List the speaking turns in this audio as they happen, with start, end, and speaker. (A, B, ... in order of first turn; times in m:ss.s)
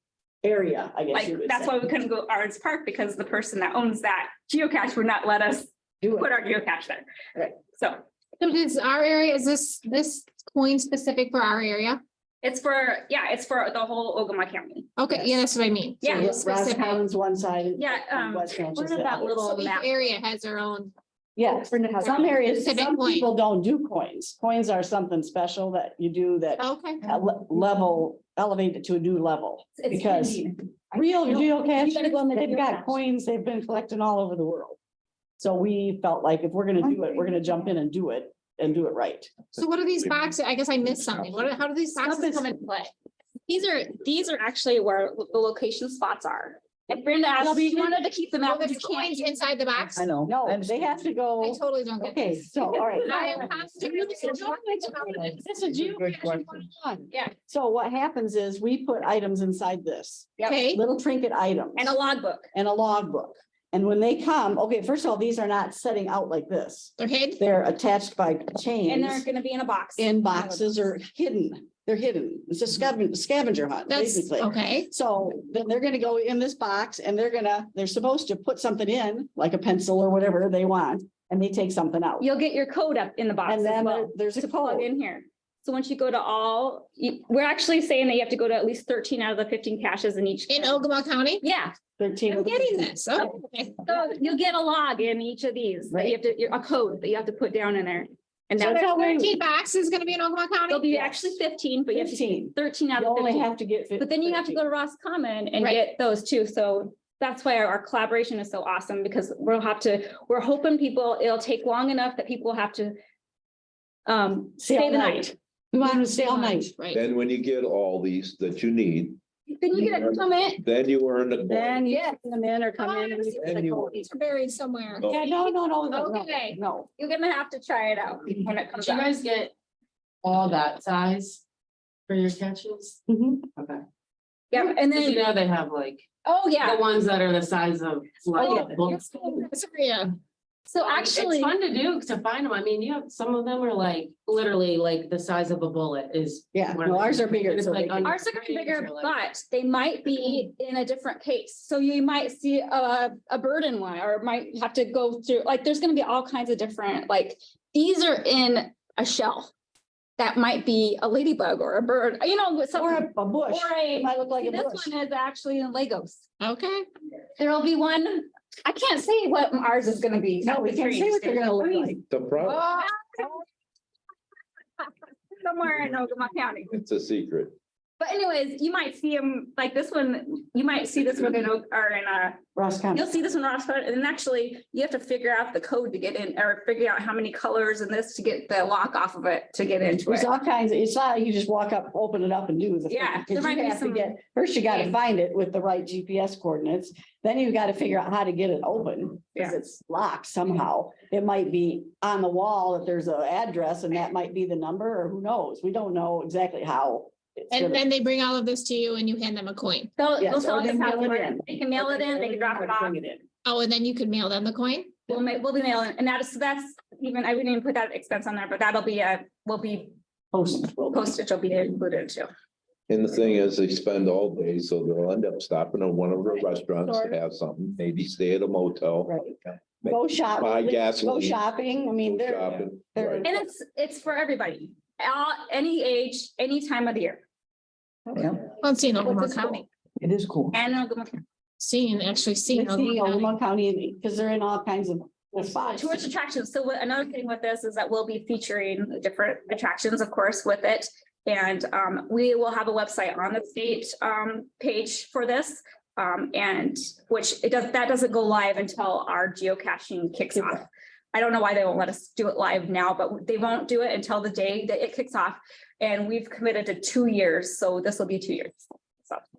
0:00.4-0:01.7 A
0:01.1-0:08.0 B
0:06.0-0:06.3 A
0:08.4-0:12.0 C
0:12.4-0:14.9 B
0:15.0-0:17.0 C
0:16.0-0:16.4 B
0:16.1-0:19.3 A
0:17.8-0:19.9 B
0:19.3-0:20.9 C
0:21.4-0:34.8 A
0:21.7-0:22.2 B
0:22.0-0:23.3 C
0:26.6-0:27.0 C
0:29.8-0:33.0 B
0:35.4-0:39.3 A
0:39.6-0:42.9 C
0:42.0-0:42.5 B
0:43.5-0:49.3 B
0:47.4-0:48.1 A
0:48.4-0:50.1 C
0:50.0-0:50.9 D
0:50.0-1:02.0 A
0:51.4-0:55.4 C
0:55.0-0:56.6 D
1:00.4-1:00.8 C
1:01.8-1:02.5 B
1:02.5-1:09.2 A
1:07.0-1:07.4 C
1:08.9-1:10.9 B
1:10.0-1:22.2 A
1:13.9-1:14.9 C
1:22.2-1:30.8 B
1:23.4-1:24.9 A
1:30.5-1:31.4 C
1:31.4-1:31.7 B
1:32.0-1:32.9 A
1:32.3-1:32.6 B
1:32.4-1:33.8 C
1:33.1-1:39.0 B
1:35.9-1:36.2 A
1:38.6-1:39.3 A
1:38.6-1:40.9 C
1:40.7-1:53.0 B
1:40.9-1:41.3 A
1:41.9-1:44.6 A
1:54.0-1:55.3 B
1:54.6-1:56.7 A
1:55.8-1:57.0 C
1:56.9-1:59.2 E
1:59.5-2:00.6 B
1:59.8-2:01.8 E
2:01.5-2:04.0 A
2:02.8-2:05.4 C
2:03.4-2:03.9 E
2:05.0-2:06.9 A
2:05.9-2:09.1 B
2:08.8-2:09.5 F
2:10.2-2:11.4 F
2:12.1-2:13.0 F
2:13.1-2:13.4 A
2:13.6-2:13.8 F
2:14.5-2:15.3 B
2:14.6-2:16.0 F
2:16.2-2:16.8 B
2:16.6-2:19.1 F
2:18.3-2:19.3 B
2:18.4-2:20.1 C
2:20.7-2:21.6 B
2:20.8-2:29.1 F
2:26.6-2:28.1 A
2:28.0-2:39.5 B
2:40.2-2:46.2 B
2:42.8-2:44.9 A
2:46.4-2:46.9 C
2:47.4-2:53.4 B
2:50.4-2:52.0 A
2:52.1-2:52.8 E
2:54.8-2:56.7 B
2:56.7-2:57.6 E
2:58.0-3:02.4 B
3:02.6-3:03.1 A
3:02.9-3:10.3 B
3:10.1-3:27.8 A
3:12.9-3:14.2 B
3:14.7-3:14.9 B
3:27.5-3:29.9 C
3:30.0-3:33.0 B
3:30.2-3:33.2 A
3:33.4-3:35.0 C
3:35.1-3:39.9 B
3:40.3-3:41.1 A
3:40.9-3:42.3 B
3:42.9-3:51.4 E
3:49.1-3:49.4 A
3:49.9-3:53.4 A
3:52.0-3:53.3 E
3:53.2-3:57.2 B
3:58.6-3:59.7 C
4:00.0-4:00.5 D
4:00.5-4:01.2 B
4:01.6-4:03.3 C
4:02.5-4:06.0 A
4:05.6-4:29.2 B